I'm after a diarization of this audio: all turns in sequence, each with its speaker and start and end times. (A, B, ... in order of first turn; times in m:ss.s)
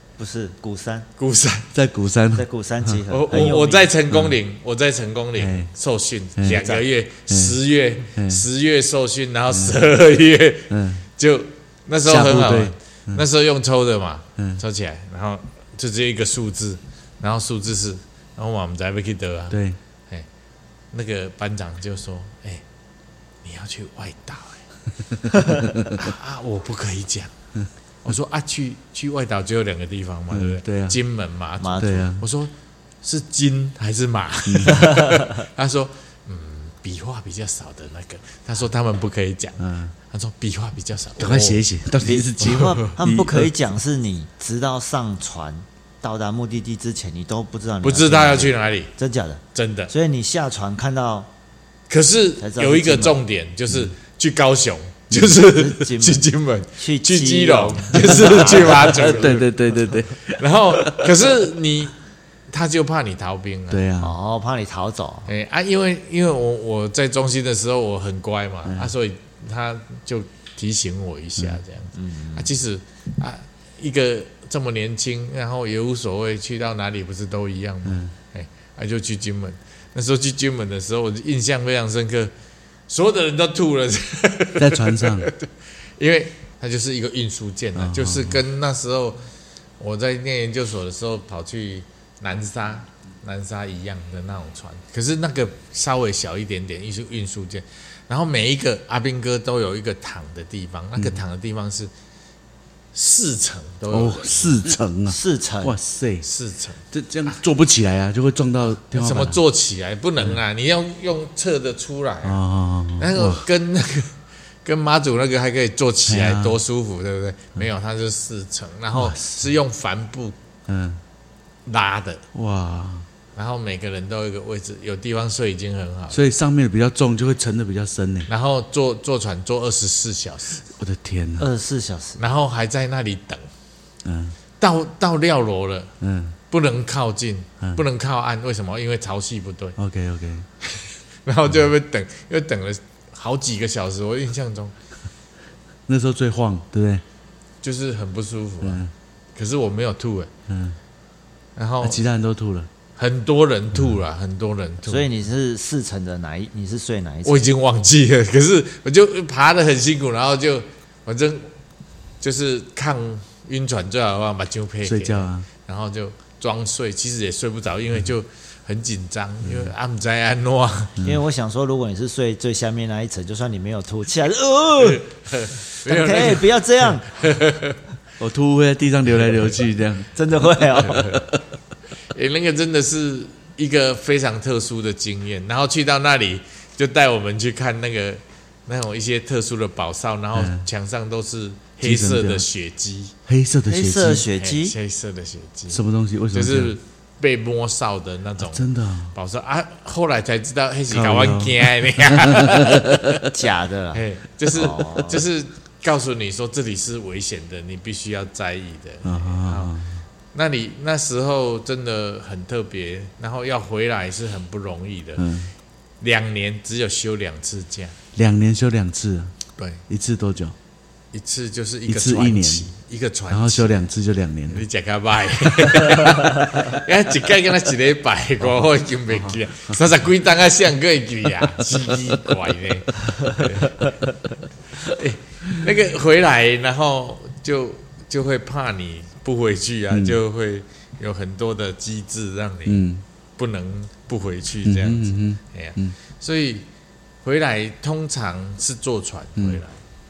0:00.2-0:01.1 A
0:01.2-0:01.7 B
0:01.7-0:03.0 C
0:02.4-0:03.9 A
0:03.1-0:20.3 B
0:05.4-0:05.7 C
0:06.4-0:06.6 C
0:06.6-0:06.8 A
0:07.3-0:07.6 C
0:08.2-0:08.4 C
0:09.5-0:09.8 C
0:10.7-0:11.1 C
0:12.0-0:13.2 C
0:19.5-0:19.8 C
0:20.9-0:22.6 B
0:23.4-0:24.6 B
0:25.1-0:26.1 C
0:26.0-0:27.3 B
0:28.0-0:32.5 B
0:30.3-0:31.0 C
0:31.6-0:32.0 A
0:31.8-0:32.2 C
0:33.0-0:41.6 B
0:34.5-0:34.8 C
0:34.9-0:35.3 A
0:39.6-0:39.9 C
0:41.2-0:43.5 C
0:42.0-0:51.3 A
0:42.4-0:42.8 B
0:47.8-0:48.9 B
0:49.6-0:49.9 B
0:51.9-0:59.5 B
0:52.4-0:53.2 A
0:55.2-0:59.4 A
0:58.7-1:01.3 C
1:00.2-1:01.9 B
1:02.5-1:03.8 B
1:03.7-1:04.1 C
1:04.0-1:05.3 A
1:05.3-1:22.3 B
1:08.7-1:08.9 C
1:12.0-1:12.5 A
1:17.9-1:18.1 C
1:22.9-1:29.2 B
1:24.6-1:25.3 C
1:27.8-1:28.4 C
1:29.8-1:41.9 B
1:41.0-1:41.2 C
1:42.9-1:44.6 B
1:43.9-1:46.3 C
1:45.1-1:45.8 A
1:46.2-1:46.8 B
1:46.9-1:49.4 C
1:48.7-1:52.4 B
1:52.2-1:53.4 C
1:53.0-1:54.1 B
1:54.6-2:00.4 B
1:56.1-1:56.6 C
1:58.9-1:59.5 C
2:00.7-2:01.0 C
2:01.7-2:02.2 B
2:02.3-2:03.1 C
2:03.4-2:06.2 B
2:06.1-2:08.3 C
2:08.3-2:10.6 B
2:10.7-2:11.5 C
2:11.4-2:12.2 A
2:12.2-2:13.5 B
2:14.0-2:14.4 C
2:14.6-2:15.9 B
2:16.0-2:16.4 C
2:16.5-2:19.8 B
2:19.8-2:20.5 C
2:21.2-2:24.7 B
2:25.9-2:27.0 C
2:27.6-2:28.8 B
2:28.6-2:28.9 C
2:29.4-2:30.3 B
2:30.5-2:30.8 C
2:31.6-2:32.0 B
2:31.8-2:32.7 C
2:33.0-2:35.1 B
2:34.9-2:37.5 A
2:37.3-2:41.5 B
2:42.2-2:51.0 B
2:44.8-2:45.5 C
2:49.4-2:49.7 C
2:51.0-2:51.2 C
2:51.0-2:55.0 A
2:54.8-2:57.8 B
2:55.8-2:57.1 A
2:58.2-3:01.2 C
3:00.1-3:01.2 A
3:00.8-3:01.2 B
3:02.1-3:13.1 B
3:10.4-3:10.7 C
3:11.8-3:12.5 C
3:13.3-3:14.3 C
3:13.7-3:14.8 A
3:14.3-3:15.8 B
3:15.7-3:16.8 C
3:16.3-3:23.2 B
3:18.4-3:19.1 C
3:20.9-3:23.3 C
3:23.3-3:25.2 A
3:23.9-3:29.7 B
3:29.0-3:30.0 C
3:30.3-3:35.2 B
3:35.2-3:35.5 C
3:36.0-3:38.0 B
3:38.2-3:39.4 C
3:39.6-3:39.8 B
3:39.9-3:40.6 C
3:41.1-3:43.9 B
3:41.9-3:42.7 C
3:43.3-3:44.6 C
3:44.5-3:53.8 B
3:49.1-3:49.8 C
3:54.8-4:02.9 B
3:59.9-4:00.2 C
4:02.7-4:03.0 C
4:03.4-4:06.7 B
4:04.6-4:06.0 C
4:07.2-4:09.7 B